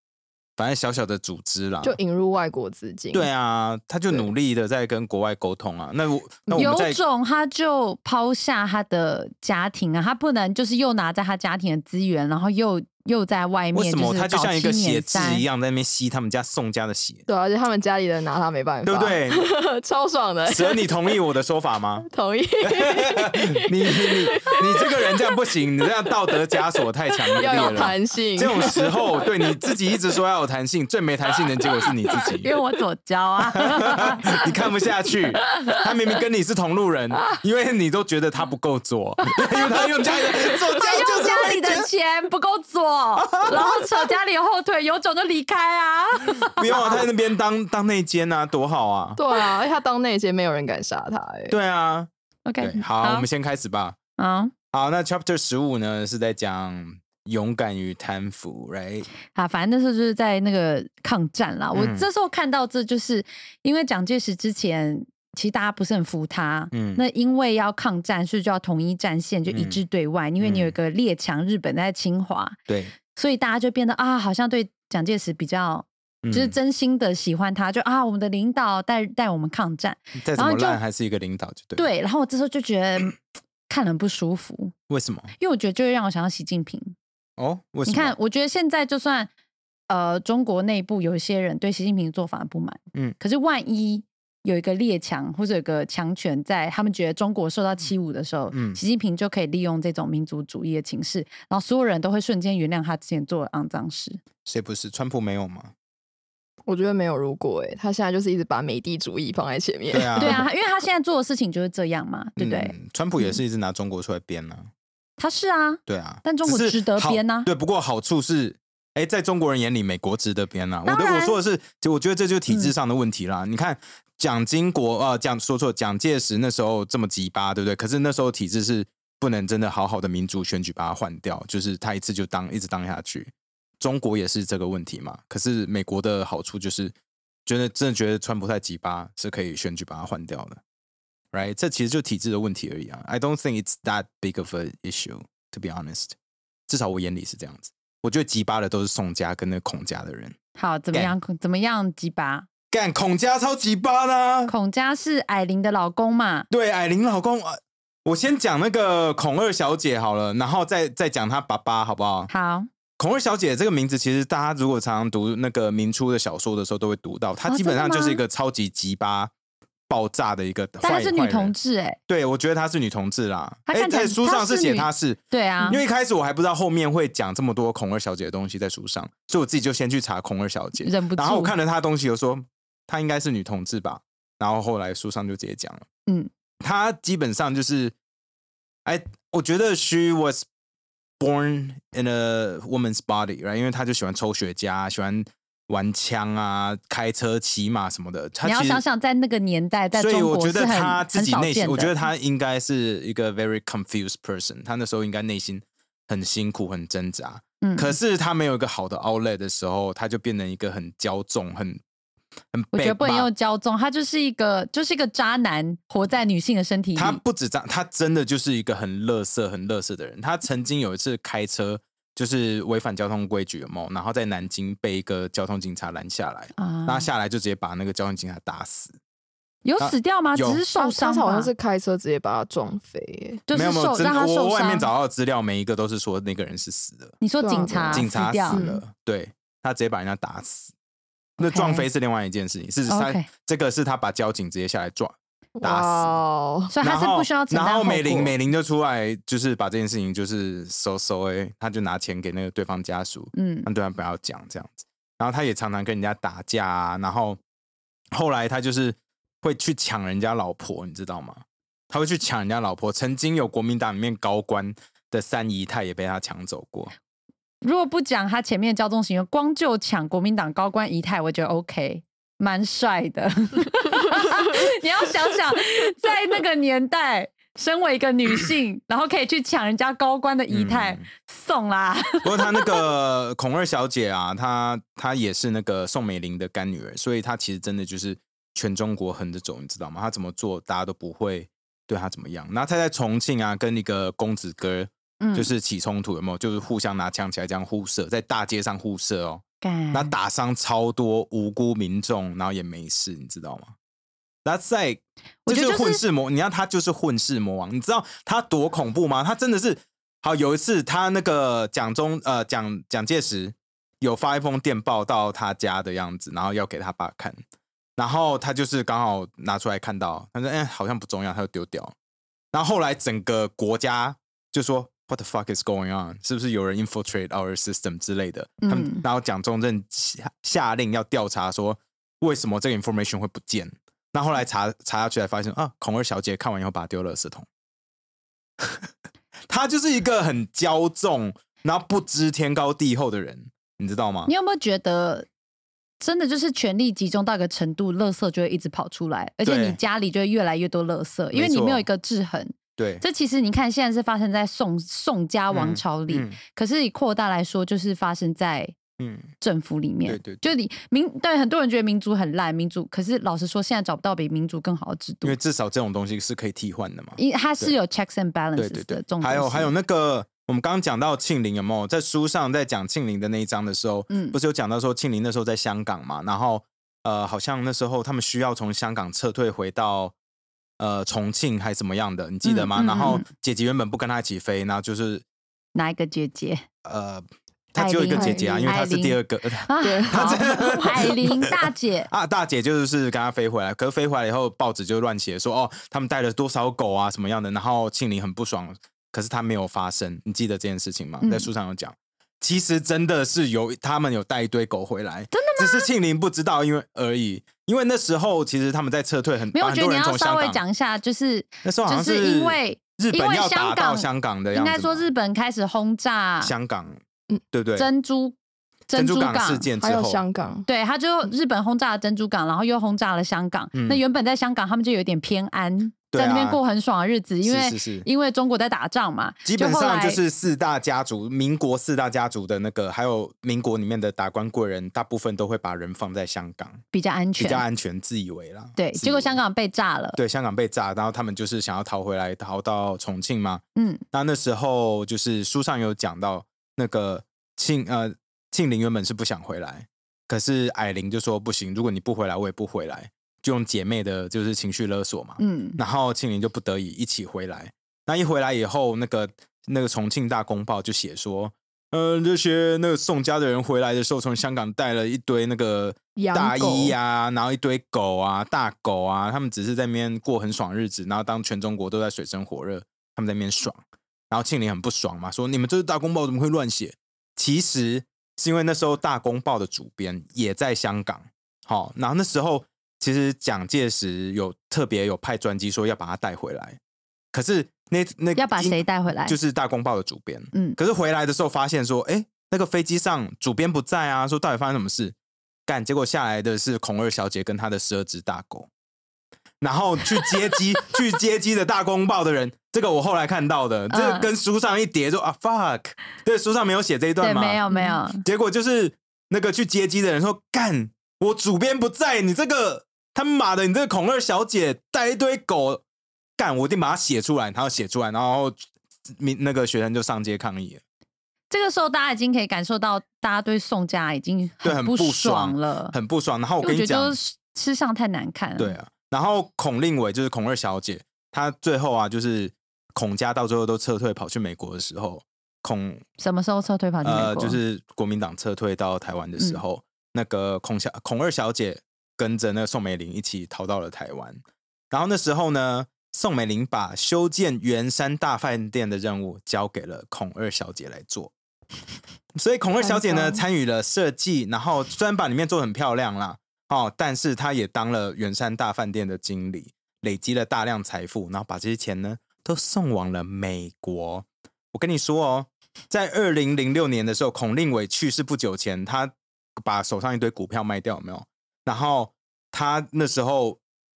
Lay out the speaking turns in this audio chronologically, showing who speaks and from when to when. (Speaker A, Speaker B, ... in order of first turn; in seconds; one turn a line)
Speaker A: 0.6-2.0
Speaker B: 1.8-3.3
Speaker A: 3.1-7.0
Speaker C: 6.5-15.4
Speaker A: 13.7-17.2
Speaker B: 17.3-21.2
Speaker A: 18.8-19.4
Speaker A: 20.5-22.1
Speaker B: 22.1-25.5
Speaker A: 22.6-32.5
Speaker B: 26.3-26.6
Speaker B: 27.3-29.8
Speaker C: 32.2-34.5
Speaker A: 33.5-41.9
Speaker C: 35.4-35.8
Speaker C: 39.3-47.0
Speaker A: 43.1-44.1
Speaker A: 46.5-49.2
Speaker B: 49.2-51.5
Speaker A: 51.5-54.0
Speaker C: 52.5-53.3
Speaker C: 54.2-54.5
Speaker A: 54.7-59.1
Speaker C: 59.3-72.6
Speaker A: 61.7-62.0
Speaker A: 66.7-67.0
Speaker A: 69.5-69.8
Speaker A: 70.4-70.7
Speaker A: 72.7-72.9
Speaker C: 73.1-80.8
Speaker A: 76.2-76.5
Speaker A: 80.2-81.8
Speaker C: 81.8-84.7
Speaker A: 84.9-85.3
Speaker C: 85.4-86.9
Speaker A: 87.4-88.1
Speaker C: 87.8-89.3
Speaker C: 89.9-104.2
Speaker A: 98.5-98.8
Speaker A: 104.5-105.7
Speaker B: 106.7-110.4
Speaker A: 109.9-110.5
Speaker C: 110.2-113.4
Speaker A: 112.4-114.7
Speaker C: 115.2-117.5
Speaker A: 115.9-136.9
Speaker C: 120.8-121.4
Speaker A: 137.4-140.6
Speaker A: 141.3-146.2
Speaker A: 146.7-150.4
Speaker C: 150.6-152.5
Speaker A: 152.7-154.5
Speaker C: 154.5-156.5
Speaker A: 156.5-162.3
Speaker C: 162.3-162.7
Speaker A: 163.0-169.3
Speaker C: 167.4-168.2
Speaker A: 169.9-171.5
Speaker C: 170.8-172.0
Speaker A: 172.1-185.8
Speaker C: 173.7-175.8
Speaker C: 180.8-181.5
Speaker A: 186.6-187.9
Speaker A: 188.8-190.4
Speaker A: 191.2-198.8
Speaker C: 198.4-202.0
Speaker A: 199.9-211.8
Speaker C: 207.6-207.9
Speaker A: 212.5-213.3
Speaker C: 212.7-217.2
Speaker A: 216.9-228.9
Speaker C: 226.6-227.1
Speaker C: 229.6-231.5
Speaker A: 229.8-230.6
Speaker B: 230.7-233.4
Speaker C: 233.5-234.9
Speaker A: 233.5-237.2
Speaker C: 237.2-238.7
Speaker B: 237.4-238.8
Speaker A: 237.9-240.7
Speaker A: 241.4-246.2
Speaker C: 241.4-241.8
Speaker C: 242.9-243.3
Speaker B: 245.6-246.7
Speaker C: 246.7-248.3
Speaker A: 246.8-257.4
Speaker C: 253.3-253.7
Speaker A: 258.1-266.9
Speaker C: 267.6-282.8
Speaker A: 280.5-281.1
Speaker A: 282.2-303.7
Speaker C: 295.2-295.5
Speaker C: 299.6-300.1
Speaker A: 304.4-317.4
Speaker C: 305.4-306.0
Speaker A: 318.0-321.9
Speaker A: 322.5-337.5
Speaker C: 328.6-329.0
Speaker A: 338.6-338.9
Speaker A: 339.5-344.3
Speaker C: 344.2-345.3
Speaker C: 346.0-358.8
Speaker A: 349.4-349.8
Speaker A: 351.3-351.9
Speaker A: 352.8-353.0
Speaker A: 355.5-356.4
Speaker A: 359.0-359.3
Speaker C: 359.4-365.4
Speaker A: 360.1-360.5
Speaker A: 365.2-367.7
Speaker C: 367.2-369.7
Speaker A: 368.6-380.1
Speaker C: 374.1-374.4
Speaker A: 380.8-385.2
Speaker C: 382.4-383.2
Speaker C: 385.7-386.6
Speaker A: 386.8-410.6
Speaker C: 387.8-392.1
Speaker B: 388.1-388.7
Speaker B: 389.8-391.1
Speaker C: 401.2-401.5
Speaker C: 405.3-405.9
Speaker C: 409.5-416.5
Speaker A: 411.6-415.1
Speaker A: 416.4-417.0
Speaker A: 417.5-417.9
Speaker C: 417.8-418.4
Speaker C: 418.9-419.7
Speaker A: 418.9-420.2
Speaker B: 419.8-420.7
Speaker C: 420.6-430.2
Speaker A: 423.7-424.0
Speaker A: 426.1-426.6
Speaker A: 427.4-428.1
Speaker A: 429.4-436.8
Speaker C: 436.9-437.6
Speaker A: 437.4-439.4
Speaker C: 438.8-440.2
Speaker A: 440.1-486.8
Speaker C: 443.8-444.0
Speaker C: 455.4-455.8
Speaker B: 466.1-466.9
Speaker A: 487.3-495.1
Speaker C: 488.4-489.4
Speaker C: 490.5-490.8
Speaker A: 495.7-498.7
Speaker A: 499.6-507.6
Speaker C: 503.9-504.3
Speaker C: 507.2-508.2
Speaker A: 508.1-515.8
Speaker A: 516.4-518.6
Speaker A: 519.1-520.8
Speaker C: 521.5-525.9
Speaker A: 524.6-527.2
Speaker C: 526.6-528.8
Speaker A: 528.6-536.0
Speaker C: 536.2-537.6
Speaker A: 537.0-551.3
Speaker A: 552.4-573.6
Speaker B: 552.8-553.4